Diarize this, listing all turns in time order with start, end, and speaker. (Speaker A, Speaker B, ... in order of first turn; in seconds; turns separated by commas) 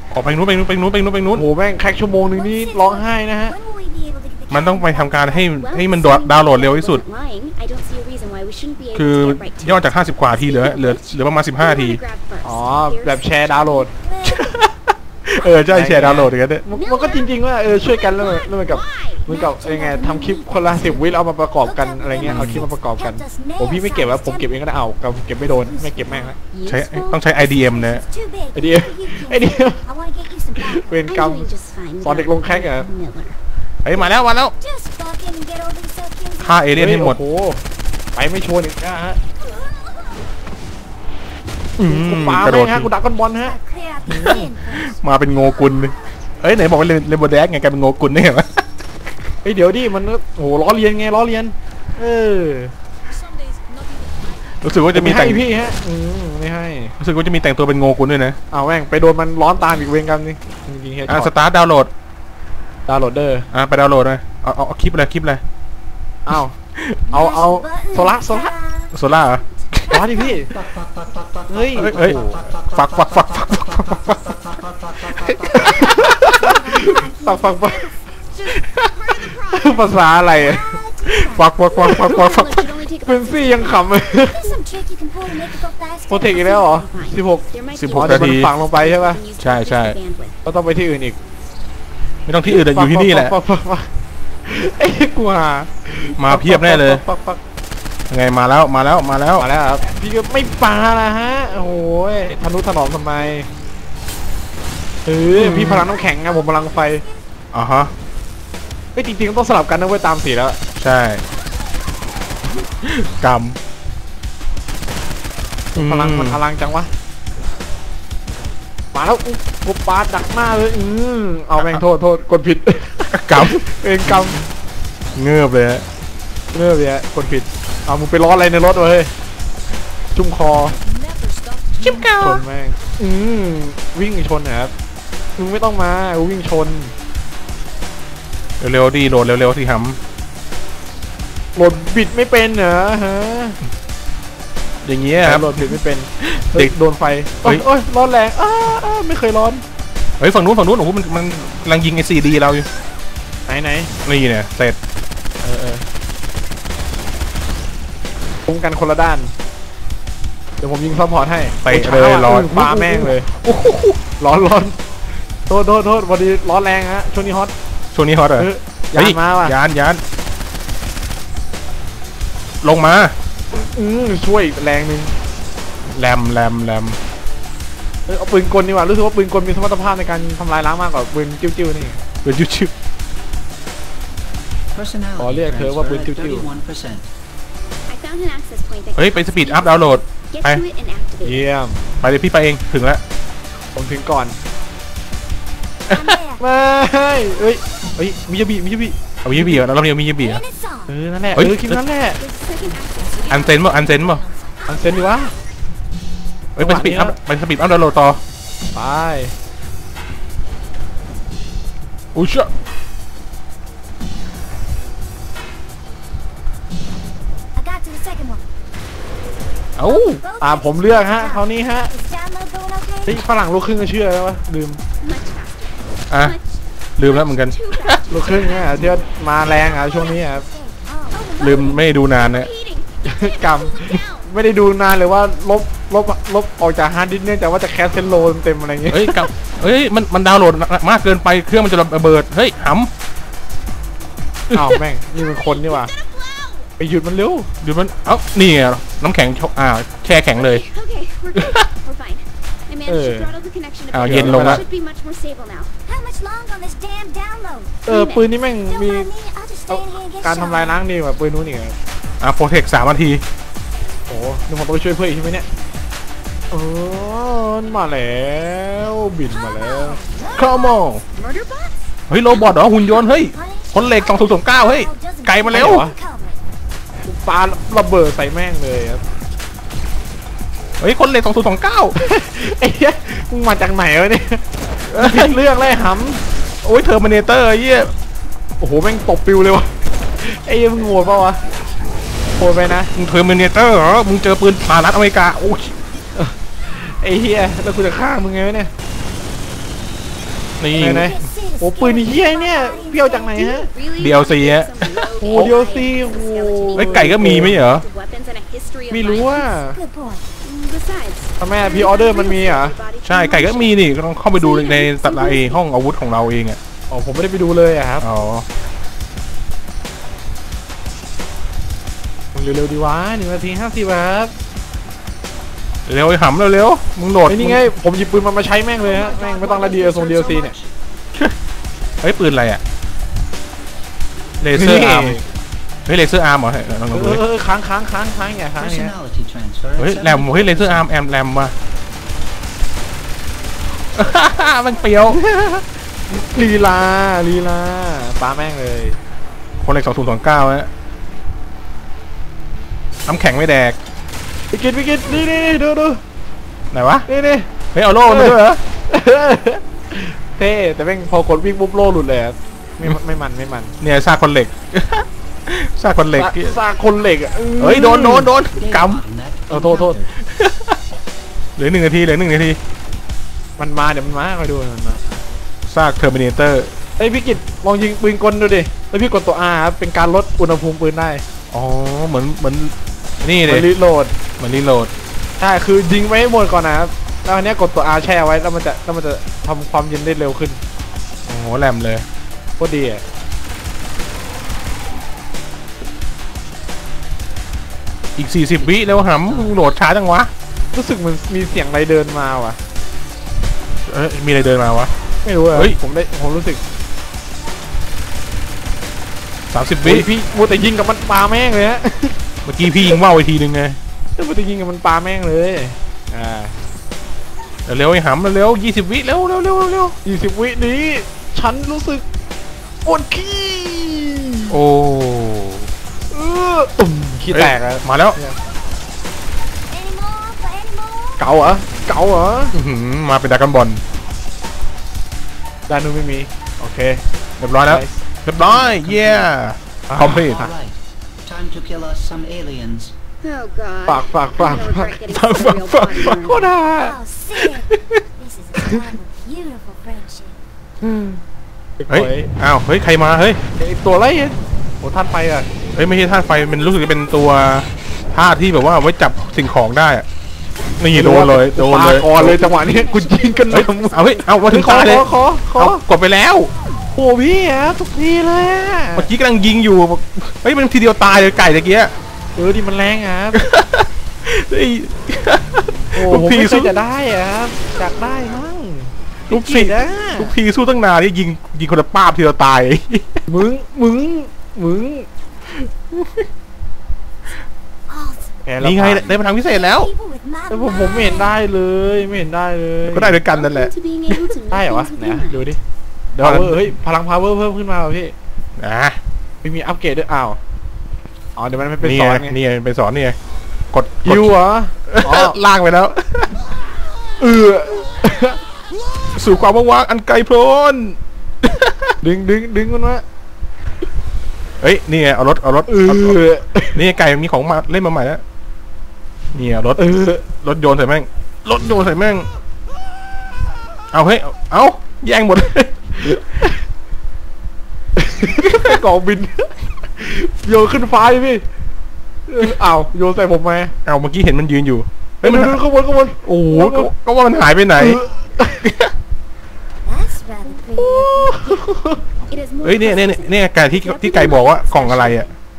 Speaker A: 0.1-1.4, Speaker B: 1.4-3.5, Speaker C: 2.3-5.3, Speaker A: 4.5-7.0, Speaker D: 5.1-13.9, Speaker A: 8.9-12.0, Speaker B: 12.4-13.9, Speaker C: 14.0-14.6, Speaker A: 14.2-16.6, Speaker B: 15.7-26.4, Speaker D: 16.7-19.3, Speaker C: 19.3-24.5, Speaker A: 22.2-22.6, Speaker C: 25.4-26.3, Speaker D: 26.5-27.2, Speaker A: 26.6-28.0, Speaker C: 27.4-30.9, Speaker B: 28.5-29.8, Speaker B: 30.6-31.5, Speaker D: 31.1-33.4, Speaker B: 32.0-32.9, Speaker A: 33.8-34.5, Speaker C: 34.6-36.6, Speaker A: 36.4-37.2, Speaker B: 36.8-37.6, Speaker B: 38.1-39.2, Speaker C: 39.4-40.2, Speaker A: 41.8-42.9, Speaker B: 41.8-43.6, Speaker C: 43.4-46.1, Speaker A: 44.1-48.6, Speaker B: 49.4-52.7, Speaker A: 54.6-55.4, Speaker B: 54.9-56.9, Speaker A: 57.0-58.4, Speaker B: 58.5-61.3, Speaker A: 61.1-61.9, Speaker B: 62.9-63.5, Speaker A: 63.5-65.4, Speaker B: 66.2-66.5, Speaker C: 67.1-68.9, Speaker B: 67.1-68.5, Speaker A: 68.9-70.0, Speaker D: 69.1-69.5, Speaker B: 69.9-70.7, Speaker C: 69.9-70.5, Speaker E: 70.8-71.4, Speaker B: 71.5-72.6, Speaker A: 71.8-74.4, Speaker B: 75.0-77.9, Speaker C: 75.5-78.6, Speaker D: 78.4-80.0, Speaker B: 79.5-80.8, Speaker C: 80.3-81.5, Speaker A: 81.1-82.7, Speaker B: 81.7-82.2, Speaker D: 81.8-83.9, Speaker B: 83.0-84.6, Speaker C: 84.3-86.5, Speaker B: 86.1-89.2, Speaker D: 86.1-90.4, Speaker A: 87.7-88.5, Speaker A: 89.4-90.0, Speaker B: 90.4-91.2, Speaker A: 92.3-93.4, Speaker B: 92.4-93.9, Speaker B: 94.4-97.4, Speaker A: 96.2-97.0, Speaker A: 98.1-99.5, Speaker B: 99.4-103.5, Speaker B: 105.0-107.0, Speaker A: 105.3-105.9, Speaker C: 106.0-107.1, Speaker A: 107.5-107.9, Speaker B: 108.9-110.6, Speaker A: 110.8-111.2, Speaker A: 112.8-113.6, Speaker A: 115.8-116.4, Speaker B: 115.8-116.9, Speaker B: 118.9-124.4, Speaker A: 123.1-123.6, Speaker A: 125.1-125.9, Speaker B: 126.5-129.1, Speaker B: 130.1-130.8, Speaker A: 131.8-132.4, Speaker B: 132.2-134.7, Speaker B: 135.4-136.9, Speaker A: 138.6-140.0, Speaker B: 141.5-143.6, Speaker A: 144.8-146.7, Speaker B: 145.2-149.6, Speaker A: 150.2-152.7, Speaker B: 153.5-153.9, Speaker A: 154.0-154.8, Speaker B: 155.4-155.8, Speaker B: 158.4-159.3, Speaker B: 160.6-163.3, Speaker A: 161.6-164.0, Speaker B: 164.2-164.8, Speaker B: 165.5-167.5, Speaker A: 167.9-170.0, Speaker B: 168.4-169.6, Speaker A: 172.6-173.1, Speaker B: 173.5-175.1, Speaker A: 175.9-177.0, Speaker B: 178.1-182.0, Speaker A: 182.2-182.7, Speaker E: 184.7-187.1, Speaker B: 185.2-186.6, Speaker D: 187.9-191.5, Speaker A: 188.9-190.6, Speaker B: 191.2-191.9, Speaker A: 192.0-193.0, Speaker B: 193.7-194.4, Speaker C: 195.9-196.4, Speaker A: 195.9-196.2, Speaker B: 196.4-199.0, Speaker A: 199.2-200.4, Speaker C: 200.2-200.9, Speaker B: 200.9-202.2, Speaker A: 201.3-201.8, Speaker D: 202.2-203.8, Speaker A: 203.3-204.2, Speaker C: 203.9-205.1, Speaker B: 204.7-205.3, Speaker A: 206.6-208.2, Speaker B: 206.6-207.2, Speaker B: 208.7-209.3, Speaker A: 212.1-212.5, Speaker C: 217.6-218.4, Speaker A: 219.8-220.2, Speaker C: 219.8-223.2, Speaker B: 220.4-221.9, Speaker B: 223.1-224.8, Speaker D: 225.0-228.8, Speaker A: 227.0-228.0, Speaker B: 228.1-230.4, Speaker C: 229.6-231.3, Speaker D: 231.1-234.3, Speaker A: 231.4-232.5, Speaker B: 233.0-239.3, Speaker A: 238.9-242.9, Speaker A: 244.5-244.8, Speaker B: 244.5-245.9, Speaker D: 245.3-246.7, Speaker B: 246.8-247.5, Speaker A: 247.6-250.6, Speaker D: 250.3-255.8, Speaker A: 251.4-251.6, Speaker B: 252.9-253.3, Speaker A: 253.9-254.6, Speaker B: 254.1-254.6, Speaker C: 255.8-257.9, Speaker D: 257.9-258.4, Speaker B: 257.9-259.1, Speaker C: 258.6-260.8, Speaker B: 259.7-261.8, Speaker A: 262.2-263.2, Speaker B: 264.1-265.5, Speaker B: 266.5-270.0, Speaker C: 269.5-270.6, Speaker A: 270.4-271.0, Speaker D: 271.1-271.9, Speaker A: 272.1-275.8, Speaker C: 272.3-276.4, Speaker B: 275.5-275.9, Speaker B: 277.0-279.0, Speaker A: 280.8-281.9, Speaker B: 281.9-286.2, Speaker A: 284.9-285.4, Speaker A: 286.6-287.9, Speaker B: 288.6-291.4, Speaker B: 292.4-292.9, Speaker A: 292.9-295.7, Speaker B: 296.1-298.7, Speaker A: 300.6-301.2, Speaker B: 300.7-303.7, Speaker C: 300.8-302.9, Speaker D: 302.7-309.4, Speaker A: 304.0-304.7, Speaker B: 305.2-307.6, Speaker A: 305.3-305.5, Speaker A: 306.8-307.9, Speaker B: 308.9-309.8, Speaker C: 309.3-310.3, Speaker D: 310.4-313.8, Speaker B: 311.4-312.8, Speaker A: 313.0-316.6, Speaker D: 314.4-315.5, Speaker C: 314.4-315.2, Speaker B: 316.9-318.1, Speaker A: 318.0-318.4, Speaker B: 322.3-324.3, Speaker A: 325.9-327.6, Speaker B: 327.3-330.5, Speaker E: 329.2-330.6, Speaker A: 332.0-332.6, Speaker A: 334.4-335.2, Speaker B: 334.5-335.2, Speaker A: 335.9-337.2, Speaker B: 336.9-338.9, Speaker E: 338.6-340.8, Speaker A: 339.8-341.5, Speaker A: 343.9-345.2, Speaker B: 345.1-349.0, Speaker A: 349.6-350.7, Speaker A: 353.1-353.8, Speaker B: 354.5-356.0, Speaker A: 356.7-357.1, Speaker B: 357.1-357.5, Speaker A: 357.7-358.6, Speaker B: 358.1-363.8, Speaker A: 363.8-366.6, Speaker B: 366.1-368.3, Speaker A: 367.6-369.1, Speaker E: 368.6-370.0, Speaker B: 369.5-370.0, Speaker A: 370.2-370.8, Speaker A: 371.6-372.6, Speaker B: 373.6-375.1, Speaker A: 375.6-376.7, Speaker B: 377.0-381.2, Speaker A: 381.5-383.6, Speaker B: 383.4-384.1, Speaker A: 384.4-384.9, Speaker B: 385.4-390.6, Speaker A: 391.2-392.0, Speaker B: 392.6-393.0, Speaker A: 398.1-400.3, Speaker B: 400.7-402.6, Speaker A: 403.9-404.9, Speaker B: 405.2-406.6, Speaker A: 409.5-410.1, Speaker B: 409.8-412.2, Speaker A: 412.4-413.8, Speaker B: 414.2-416.6, Speaker A: 417.7-419.9, Speaker B: 420.0-422.0, Speaker B: 422.9-424.6, Speaker A: 424.5-425.7, Speaker B: 426.1-428.4, Speaker A: 427.3-428.2, Speaker C: 429.7-431.2, Speaker B: 431.2-432.5, Speaker A: 432.5-433.8, Speaker B: 435.7-437.0, Speaker A: 437.4-440.5, Speaker B: 437.7-438.1, Speaker B: 438.7-439.2, Speaker B: 439.9-440.6, Speaker E: 440.3-442.9, Speaker D: 443.2-446.6, Speaker B: 443.9-445.0, Speaker A: 445.1-446.2, Speaker B: 446.0-447.0, Speaker C: 446.7-450.4, Speaker B: 450.8-451.2, Speaker B: 451.8-452.3, Speaker A: 451.9-453.4, Speaker B: 453.6-455.5, Speaker A: 455.7-460.1, Speaker A: 460.8-462.4, Speaker B: 460.9-465.8, Speaker D: 462.1-465.0, Speaker A: 463.5-465.1, Speaker A: 465.6-466.5, Speaker B: 466.9-469.1, Speaker A: 468.9-471.9, Speaker B: 472.4-473.4, Speaker A: 473.4-476.7, Speaker B: 475.9-480.4, Speaker A: 479.3-483.2, Speaker B: 483.3-485.1, Speaker A: 485.6-486.2, Speaker C: 487.9-488.4, Speaker B: 488.4-489.1, Speaker A: 488.6-489.9, Speaker C: 489.3-491.3, Speaker B: 490.5-493.2, Speaker A: 492.9-494.2, Speaker D: 493.3-495.4, Speaker B: 494.5-495.6, Speaker A: 496.1-496.7, Speaker B: 496.2-498.1, Speaker A: 498.6-499.0, Speaker B: 499.4-500.4, Speaker B: 501.4-502.4, Speaker A: 501.8-503.1, Speaker A: 503.7-504.4, Speaker B: 504.1-505.4, Speaker A: 504.9-506.3, Speaker B: 507.2-508.4, Speaker A: 509.1-511.9, Speaker B: 512.0-513.0, Speaker A: 514.6-516.2, Speaker B: 515.7-516.8, Speaker A: 516.7-518.2, Speaker A: 519.3-522.3, Speaker B: 519.8-520.2, Speaker A: 523.9-526.2, Speaker B: 528.0-531.4, Speaker B: 532.3-533.7, Speaker A: 533.9-535.6, Speaker B: 535.2-536.9, Speaker A: 536.2-538.0, Speaker B: 537.8-538.7, Speaker A: 538.6-538.9, Speaker C: 539.9-541.7, Speaker B: 540.8-542.0, Speaker D: 542.3-545.3, Speaker A: 542.6-545.3